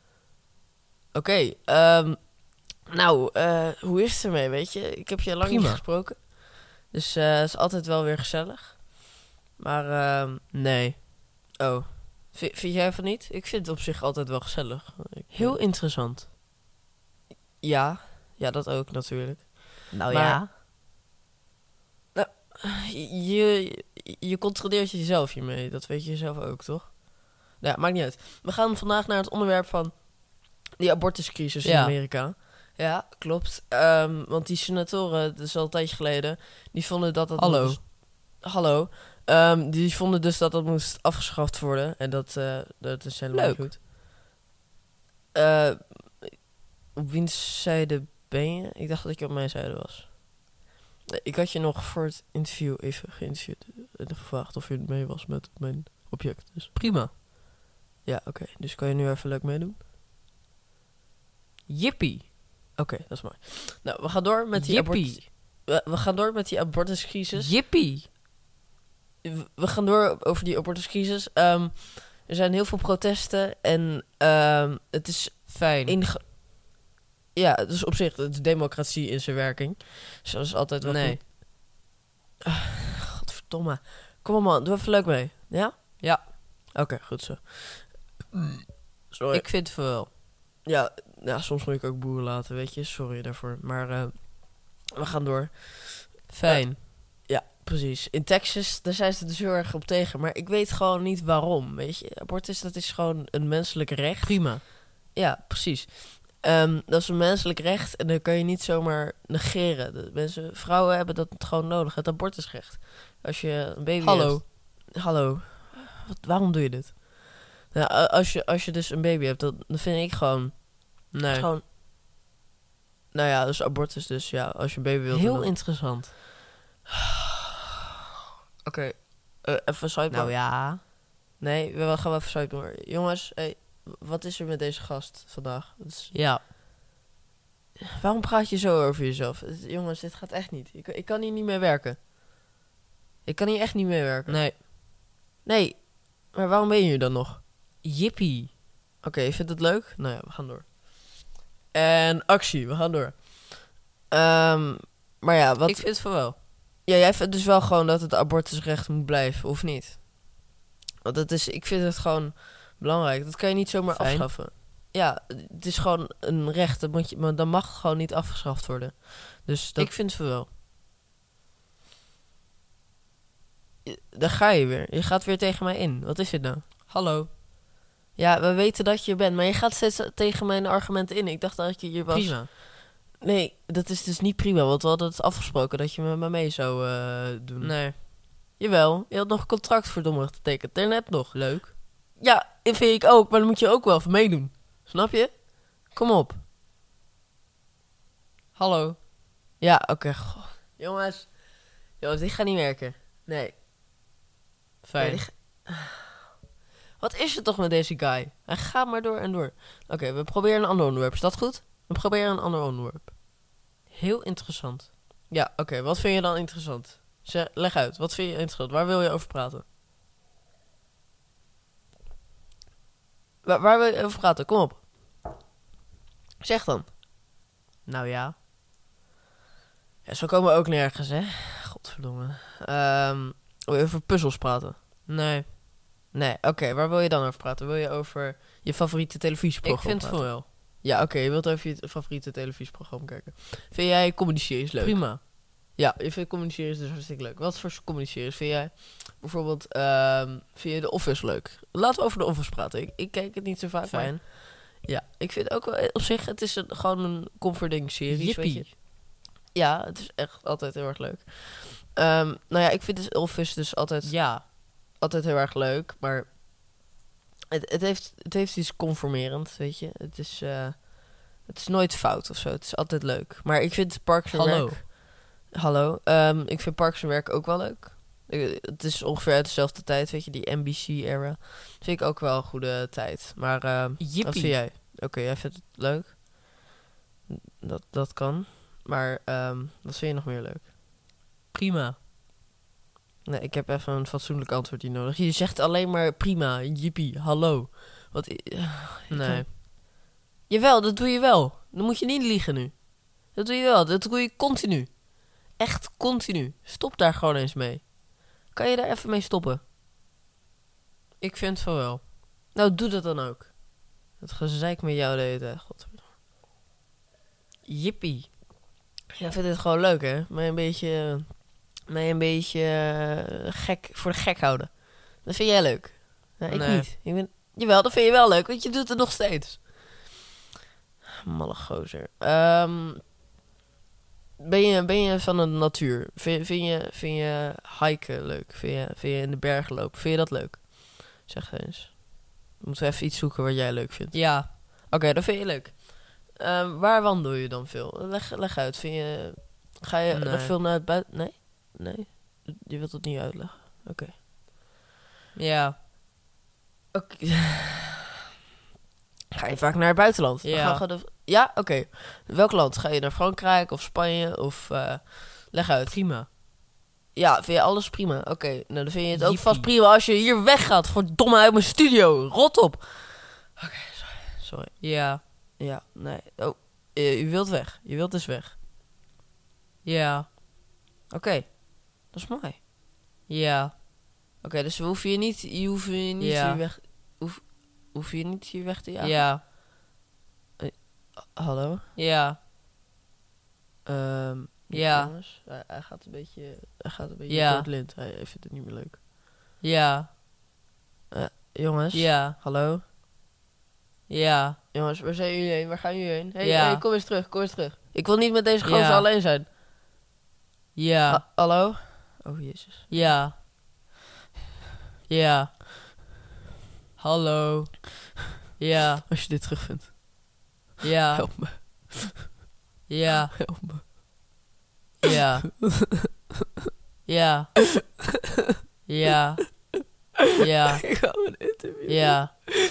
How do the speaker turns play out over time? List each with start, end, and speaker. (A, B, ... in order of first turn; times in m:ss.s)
0:01.1-0:10.5 A
0:05.4-0:05.8 B
0:10.5-0:11.0 B
0:11.6-0:15.6 A
0:15.3-0:16.3 B
0:17.6-0:20.4 A
0:19.9-0:20.5 B
0:22.1-0:43.8 A
0:31.6-0:31.9 B
0:37.4-0:37.8 B
0:43.3-0:43.7 B
0:45.3-0:50.2 A
0:51.1-0:56.8 A
0:56.7-0:57.1 B
0:58.0-0:59.8 A
1:01.7-1:02.3 B
1:02.8-1:07.5 A
1:04.5-1:05.2 B
1:07.3-1:08.1 B
1:09.2-1:16.3 A
1:15.5-1:16.0 B
1:17.3-1:21.2 A
1:20.8-1:21.2 B
1:22.5-1:28.4 A
1:26.0-1:26.3 B
1:29.1-1:29.4 A
1:29.3-1:30.1 B
1:30.6-2:01.6 A
1:36.3-1:36.8 B
1:44.2-1:44.6 B
1:54.0-1:54.4 B
2:01.1-2:01.5 B
2:03.1-2:05.5 A
2:05.1-2:06.1 B
2:08.6-2:10.4 A
2:10.1-2:10.8 B
2:11.4-2:16.2 A
2:16.1-2:16.4 B
2:17.9-2:22.0 A
2:23.2-2:24.7 A
2:24.3-2:24.6 B
2:25.4-2:27.4 A
2:27.8-2:28.5 B
2:29.0-2:35.9 A
2:35.6-2:36.4 B
2:36.8-2:40.0 A
2:41.0-2:50.5 A
2:43.9-2:44.4 B
2:53.8-2:56.9 A
2:56.9-2:57.3 B
2:58.1-3:16.4 A
3:02.1-3:02.5 B
3:07.6-3:08.0 B
3:11.3-3:11.7 B
3:18.6-3:19.0 B
3:19.6-3:23.6 A
3:24.8-3:25.2 B
3:25.0-3:26.0 A
3:27.0-3:33.1 A
3:33.9-3:34.9 B
3:35.3-3:39.6 A
3:43.4-3:44.9 A
3:46.4-3:46.9 A
3:47.9-3:48.3 B
3:50.0-3:54.8 A
3:55.1-3:55.5 B
3:56.1-4:18.8 A
3:59.6-4:00.4 B
4:04.8-4:05.2 B
4:13.8-4:14.1 B
4:18.1-4:18.7 B
4:19.5-4:26.4 A
4:24.0-4:24.4 B
4:27.5-4:46.2 A
4:34.3-4:34.8 B
4:44.0-4:44.6 B
4:47.3-4:50.7 A
4:51.5-4:52.0 B
4:53.2-5:09.6 A
4:59.1-4:59.5 B
5:11.2-5:12.0 B
5:12.4-5:16.1 A
5:17.7-5:18.3 B
5:19.1-5:29.8 A
5:26.5-5:26.9 B
5:31.2-5:33.0 A
5:34.4-5:54.2 A
5:44.1-5:44.5 B
5:50.1-5:50.5 B
5:55.3-5:55.7 B
5:56.9-5:58.0 A
5:59.3-6:06.0 A
6:00.4-6:00.8 B
6:05.9-6:06.3 B
6:07.1-6:18.5 A
6:09.1-6:09.7 B
6:14.8-6:15.2 B
6:19.8-6:20.3 B
6:21.1-6:22.6 A
6:23.3-6:23.7 B
6:24.4-6:29.3 A
6:26.2-6:26.6 B
6:29.0-6:29.4 B
6:30.6-6:31.8 A
6:32.0-6:32.4 B
6:33.8-6:39.0 A
6:34.7-6:35.1 B
6:37.3-6:37.7 B
6:39.6-6:40.1 B
6:41.1-6:42.8 A
6:41.9-6:42.4 B
6:44.1-6:44.6 B
6:44.7-6:49.5 A
6:46.4-6:46.8 B
6:48.6-6:49.0 B
6:50.7-6:51.2 B
6:51.1-6:53.2 A
6:52.9-6:53.4 B
6:55.1-6:55.6 B
6:57.0-6:57.8 B
6:58.6-6:59.0 B
6:59.1-6:59.9 A
7:00.8-7:01.3 B
7:01.1-7:02.3 A
7:02.9-7:03.3 B
7:03.3-7:03.9 A
7:05.0-7:05.5 B
7:05.2-7:05.8 A
7:07.0-7:07.5 B
7:08.9-7:09.4 B
7:10.4-7:10.8 B
7:10.7-7:12.2 A
7:11.9-7:12.3 B